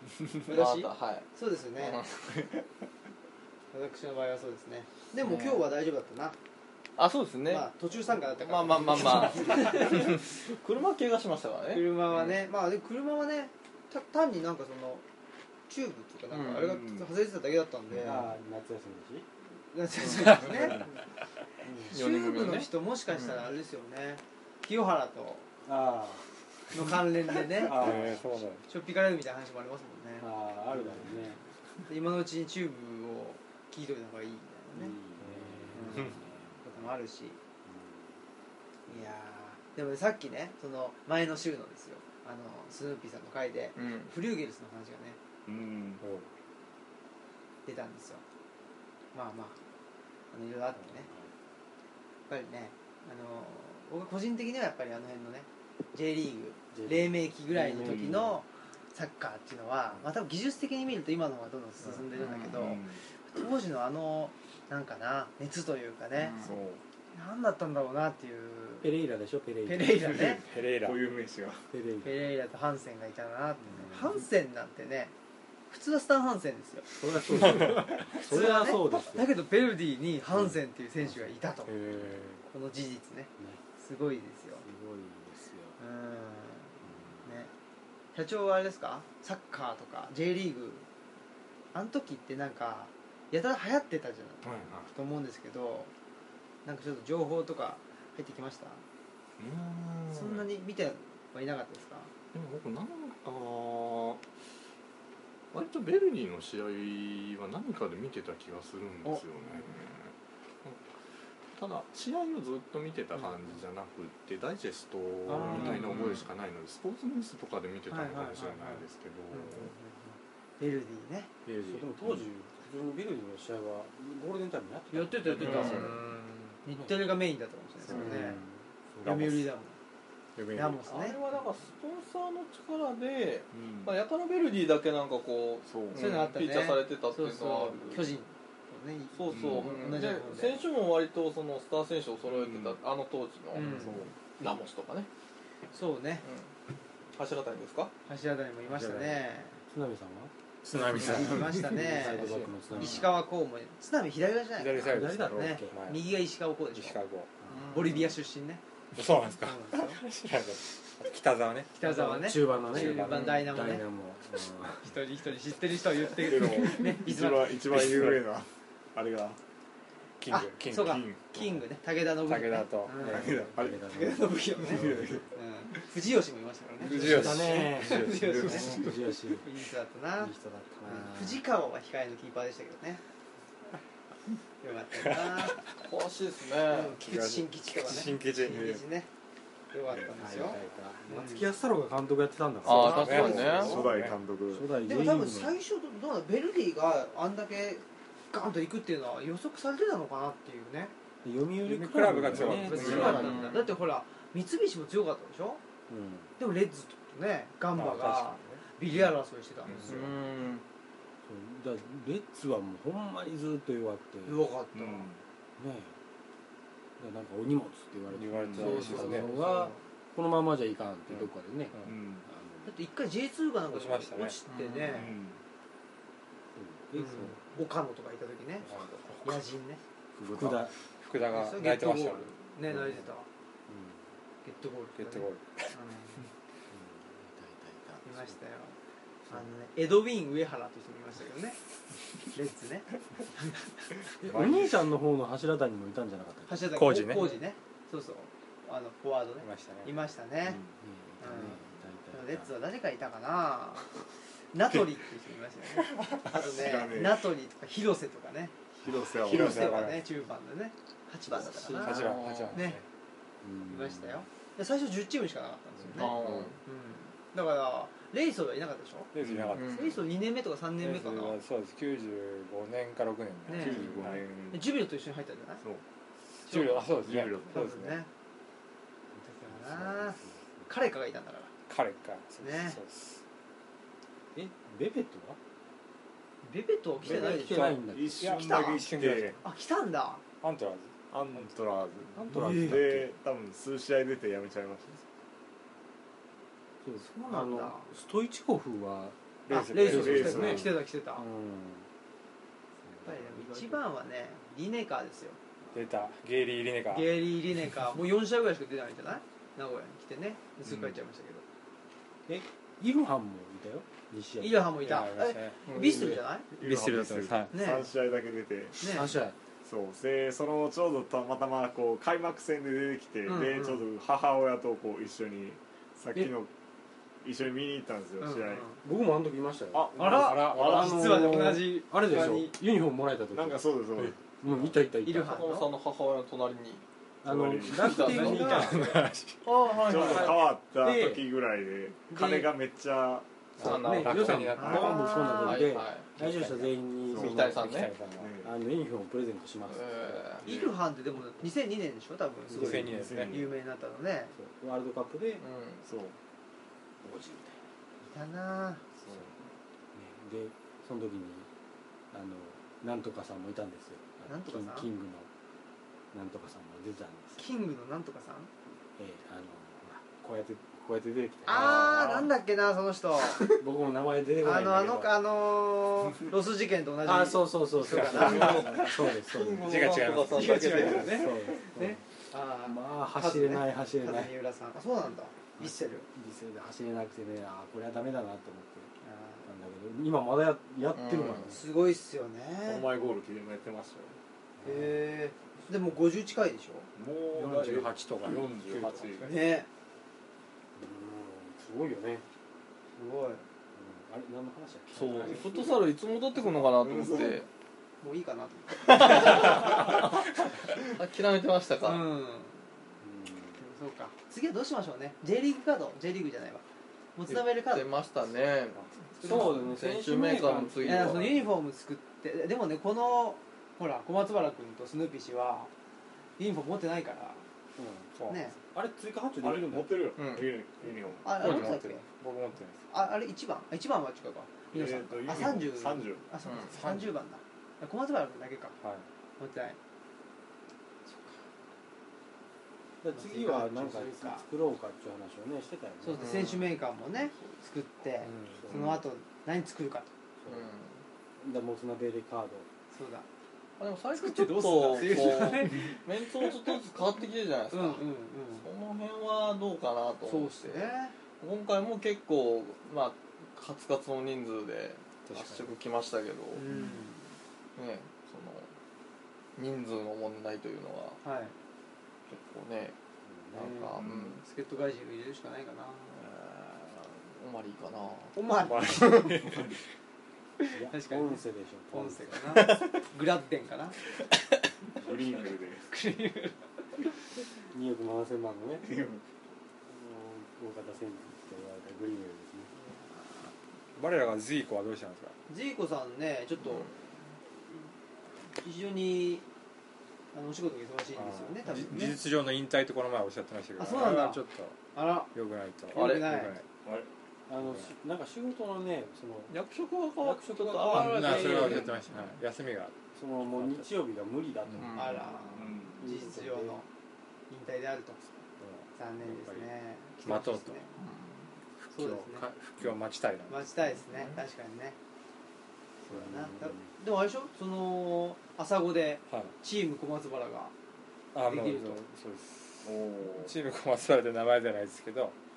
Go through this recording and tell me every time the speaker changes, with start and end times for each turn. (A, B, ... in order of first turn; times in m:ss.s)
0:00.4-0:02.0 A
0:00.4-0:02.1 B
0:03.7-0:06.4 A
0:05.2-0:05.6 B
0:07.0-0:12.3 B
0:07.5-0:10.2 A
0:11.7-0:15.0 A
0:15.7-0:18.3 A
0:16.3-0:16.8 B
0:16.8-0:17.0 C
0:18.0-0:19.3 D
0:19.7-0:20.9 A
0:21.6-0:22.0 D
0:21.9-0:25.5 A
0:21.9-0:23.5 B
0:25.6-0:26.3 D
0:26.7-0:28.1 A
0:27.3-0:28.4 D
0:27.6-0:28.6 E
0:28.7-0:30.3 A
0:30.2-0:31.4 D
0:31.9-0:35.0 A
0:34.7-0:36.8 D
0:35.7-0:37.4 A
0:37.6-0:38.2 D
0:38.9-0:45.2 A
0:43.8-0:44.1 B
0:45.4-0:46.0 C
0:46.0-0:46.3 E
0:47.6-0:48.2 A
0:49.1-0:49.6 A
0:50.3-0:51.1 A
0:50.9-0:51.3 D
0:52.3-1:06.5 A
0:56.7-0:58.4 D
0:57.8-0:58.2 C
1:02.2-1:02.8 B
1:02.5-1:03.0 C
1:06.2-1:06.5 B
1:06.4-1:06.8 C
1:07.1-1:08.9 A
1:08.8-1:10.4 D
1:09.6-1:10.4 A
1:10.4-1:11.0 E
1:10.4-1:11.7 C
1:11.7-1:12.2 D
1:12.0-1:15.1 A
1:13.6-1:14.2 D
1:15.7-1:21.8 A
1:16.9-1:19.3 D
1:21.7-1:22.4 E
1:22.4-1:24.6 A
1:24.6-1:25.8 D
1:25.8-1:27.5 A
1:26.8-1:27.5 D
1:28.1-1:30.9 A
1:31.7-1:35.9 A
1:34.4-1:34.9 F
1:36.6-1:38.8 A
1:39.4-1:40.4 F
1:40.1-1:42.1 A
1:42.3-1:44.2 F
1:45.5-1:50.9 F
1:51.5-1:59.7 F
1:55.3-1:56.1 A
1:57.9-2:01.3 A
2:01.5-2:01.8 E
2:01.6-2:05.9 D
2:04.9-2:06.0 A
2:05.4-2:05.8 B
2:05.5-2:06.6 E
2:06.6-2:08.4 A
2:07.9-2:09.1 D
2:07.9-2:08.2 E
2:09.0-2:09.8 A
2:10.4-2:10.8 E
2:10.5-2:11.2 A
2:10.8-2:18.1 B
2:13.5-2:13.9 C
2:15.7-2:16.0 C
2:15.9-2:20.6 A
2:19.1-2:25.1 B
2:19.3-2:19.7 C
2:22.3-2:22.7 C
2:23.5-2:24.1 A
2:23.6-2:24.1 C
2:25.7-2:26.2 A
2:26.2-2:26.5 B
2:27.2-2:27.9 B
2:28.0-2:29.6 A
2:28.7-2:30.3 D
2:30.6-2:32.5 E
2:30.9-2:37.0 A
2:31.0-2:33.2 D
2:34.6-2:36.0 E
2:34.8-2:35.8 D
2:36.7-2:37.3 E
2:37.4-2:38.0 D
2:37.5-2:38.0 B
2:37.7-2:38.6 A
2:38.9-2:42.0 E
2:39.4-2:40.0 A
2:41.7-2:43.8 A
2:41.8-2:45.0 D
2:42.7-2:43.4 E
2:44.8-2:47.7 A
2:46.2-2:49.4 C
2:47.6-2:48.2 E
2:50.2-2:51.5 E
2:50.3-3:00.3 A
2:52.2-2:53.0 E
2:53.0-2:55.3 D
2:53.0-2:54.0 C
2:54.6-2:55.3 C
2:56.8-2:57.2 C
2:56.8-2:59.5 D
2:56.8-2:58.4 E
2:58.1-2:59.0 C
3:00.2-3:01.4 D
3:00.8-3:03.0 A
3:04.6-3:05.6 A
3:05.7-3:07.0 B
3:06.7-3:09.1 A
3:07.0-3:08.8 E
3:08.4-3:08.8 C
3:09.7-3:11.5 A
3:10.0-3:13.8 D
3:12.6-3:13.8 B
3:12.6-3:13.8 A
3:12.8-3:14.2 E
3:13.0-3:14.7 C
3:14.5-3:15.6 D
3:14.8-3:20.9 A
3:21.2-3:23.5 D
3:21.6-3:23.4 E
3:22.3-3:25.6 A
3:22.8-3:23.7 B
3:25.9-3:26.3 D
3:26.4-3:30.1 A
3:27.7-3:28.6 E
3:29.8-3:30.6 B
3:31.2-3:34.4 D
3:34.2-3:35.1 A
3:34.7-3:35.2 C
3:35.6-3:36.0 D
3:37.0-3:42.8 D
3:38.1-3:39.3 E
3:38.4-3:38.7 C
3:38.6-3:39.4 B
3:38.6-3:39.8 A
3:41.2-3:42.0 E
3:41.9-3:42.2 C
3:42.6-3:45.2 A
3:43.7-3:44.4 E
3:44.5-3:45.1 B
3:44.9-3:45.4 C
3:46.5-3:47.5 D
3:46.9-3:48.7 A
3:48.6-3:49.4 E
3:49.2-3:49.8 A
3:50.2-3:50.7 D
3:50.3-3:52.3 E
3:51.3-3:53.3 A
3:53.7-3:54.0 D
3:54.4-3:56.2 A
3:55.0-3:55.7 E
3:56.7-3:58.4 D
3:58.0-3:58.8 A
3:59.3-4:01.6 A
4:02.3-4:03.6 A
4:04.2-4:07.3 D
4:06.5-4:10.6 A
4:06.7-4:07.3 E
4:09.4-4:09.9 E
4:10.5-4:10.7 C
4:10.8-4:12.5 D
4:11.2-4:13.9 A
4:14.5-4:22.8 A
4:16.2-4:17.3 C
4:18.8-4:19.8 C
4:19.2-4:20.0 E
4:21.4-4:22.0 D
4:21.8-4:22.8 E
4:21.8-4:22.6 B
4:23.4-4:24.2 D
4:23.6-4:31.4 A
4:25.9-4:26.6 B
4:26.2-4:26.5 C
4:29.1-4:30.0 E
4:29.2-4:29.6 C
4:29.5-4:30.0 B
4:30.8-4:34.2 E
4:33.5-4:35.6 A
4:33.6-4:34.6 C
4:36.4-4:38.0 E
4:36.5-4:36.9 A
4:36.8-4:37.7 C
4:37.5-4:38.1 A
4:39.2-4:40.7 D
4:39.2-4:41.5 A
4:41.7-4:43.2 E
4:42.4-4:42.8 A
4:44.3-4:45.4 D
4:46.4-4:48.9 A
4:47.0-4:48.4 D
4:47.1-4:49.4 E
4:47.9-4:49.4 C
4:49.4-4:50.2 A
4:50.4-4:51.4 E
4:51.1-4:55.0 C
4:52.1-4:53.0 D
4:56.8-4:59.2 D
4:57.0-4:57.9 A
4:59.5-5:00.5 E
4:59.5-5:01.2 A
4:59.8-5:01.9 D
4:59.9-5:00.7 C
5:02.8-5:03.8 D
5:03.0-5:05.4 A
5:05.7-5:07.1 E
5:06.9-5:11.4 A
5:12.3-5:14.8 D
5:14.4-5:16.5 A
5:14.8-5:15.6 E
5:15.7-5:16.1 B
5:15.9-5:16.2 D
5:16.5-5:18.8 C
5:16.6-5:17.5 E
5:17.5-5:17.9 A
5:18.8-5:19.1 A
5:18.8-5:19.3 D
5:19.6-5:26.5 C
5:23.2-5:23.8 A
5:27.2-5:28.6 C
5:28.2-5:28.8 A
5:28.8-5:30.0 D
5:29.7-5:31.3 C
5:30.0-5:32.6 A
5:30.0-5:31.0 E
5:30.5-5:35.4 D
5:33.3-5:34.7 C
5:35.0-5:35.7 A
5:35.2-5:36.8 B
5:37.2-5:38.9 D
5:37.3-5:37.9 C
5:37.7-5:38.7 B
5:37.9-5:38.9 A
5:38.4-5:39.4 E
5:39.4-5:40.4 B
5:39.7-5:43.2 C
5:39.8-5:41.2 D
5:42.1-5:42.5 A
5:43.6-5:45.1 E
5:43.6-5:46.1 B
5:43.6-5:50.5 D
5:44.6-5:45.7 A
5:44.6-5:44.9 C
5:47.0-5:47.3 C
5:47.1-5:47.9 B
5:47.4-5:48.3 E
5:48.1-5:48.5 C
5:49.7-5:50.4 B
5:50.4-5:54.3 A
5:50.4-5:50.7 C
5:52.5-5:53.1 D
5:52.6-5:53.3 E
5:52.9-5:53.5 C
5:54.3-5:55.4 D
5:55.4-5:55.8 B
5:55.8-5:56.2 C
5:57.0-5:57.6 D
5:58.0-5:58.8 A
5:59.0-5:59.3 C
5:59.9-6:01.5 D
6:02.1-6:05.3 D
6:04.3-6:04.9 A
6:06.1-6:07.4 D
6:07.4-6:08.5 A
6:09.0-6:12.2 D
6:11.4-6:13.6 A
6:11.5-6:12.3 E
6:13.3-6:15.1 D
6:14.4-6:18.7 A
6:17.0-6:19.8 D
6:18.0-6:18.8 E
6:18.2-6:21.2 B
6:19.6-6:20.9 E
6:20.2-6:21.4 A
6:20.8-6:22.0 D
6:21.0-6:21.4 C
6:22.3-6:26.1 A
6:22.6-6:24.3 D
6:26.1-6:28.9 D
6:29.0-6:29.5 A
6:29.4-6:31.7 D
6:30.9-6:31.5 B
6:31.4-6:32.9 A
6:32.6-6:34.2 C
6:34.6-6:35.0 D
6:34.6-6:36.9 A
6:37.0-6:39.3 C
6:37.3-6:39.4 E
6:39.2-6:39.7 A
6:40.8-6:42.2 D
6:43.0-6:43.4 A
6:43.7-6:45.7 D
6:44.9-6:47.5 B
6:46.8-6:47.4 C
6:48.0-6:49.8 A
6:48.8-6:52.0 B
6:51.8-6:52.8 A
6:53.0-6:53.7 D
6:53.5-6:56.6 A
6:57.2-6:57.8 A
6:57.3-7:01.2 B
6:59.2-6:59.6 A
6:59.2-7:01.4 D
7:00.8-7:05.7 A
7:06.4-7:07.4 A
7:07.8-7:10.1 D
7:08.3-7:08.6 A
7:09.4-7:11.6 C
7:10.2-7:10.5 B
7:11.2-7:12.0 A
7:11.3-7:12.8 E
7:12.9-7:18.8 A
7:14.7-7:16.2 C
7:16.4-7:16.7 B
7:16.7-7:17.0 E
7:19.4-7:19.8 A
7:21.1-7:21.4 A
7:23.0-7:26.5 D
7:23.1-7:24.4 A
7:26.0-7:30.1 A
7:26.2-7:26.7 B
7:28.3-7:28.6 E
7:28.6-7:29.0 D
7:30.4-7:30.7 D
7:30.5-7:31.0 B
7:31.4-7:32.7 D
7:32.9-7:33.3 A
7:33.8-7:46.6 B
7:34.1-7:36.8 A
7:37.7-7:38.6 A
7:40.2-7:41.1 A
7:45.2-7:45.7 E
7:46.5-7:47.3 A
7:47.8-7:48.7 B
7:49.6-7:51.2 B
7:51.2-7:51.5 A
7:52.3-7:53.0 B
7:53.2-7:54.0 D
7:53.5-7:54.4 B
7:54.0-7:54.3 C
7:54.4-7:56.2 A
7:56.1-7:58.3 B
7:58.3-7:59.6 A
7:58.6-7:59.6 E
8:00.6-8:04.0 A
8:00.7-8:02.7 D
8:02.5-8:02.9 B
8:05.0-8:05.9 C
8:05.9-8:06.6 A
8:07.7-8:09.0 D
8:08.8-8:09.2 C
8:09.9-8:12.7 D
8:12.8-8:13.5 A
8:14.0-8:15.4 E
8:15.5-8:16.9 A
8:18.5-8:19.4 A
8:20.3-8:22.2 A
8:21.2-8:24.8 E
8:23.8-8:25.3 A
8:25.3-8:26.6 E
8:25.9-8:26.6 A
8:25.9-8:26.3 B
8:27.5-8:29.5 D
8:27.6-8:27.9 E
8:29.5-8:32.4 B
8:30.2-8:32.0 D
8:30.9-8:33.8 E
8:33.1-8:35.4 D
8:34.8-8:35.5 B
8:34.9-8:36.9 A
8:35.6-8:36.0 C
8:36.0-8:36.8 D
8:37.5-8:38.4 A
8:38.6-8:39.7 D
8:38.9-8:40.9 A
8:40.2-8:40.8 E
8:41.0-8:41.5 B
8:41.8-8:43.6 E
8:41.9-8:42.5 A
8:43.5-8:45.0 A
8:46.0-8:50.7 A
8:46.1-8:46.9 D
8:51.3-8:55.4 E
8:51.4-8:52.0 A
8:52.8-8:53.5 C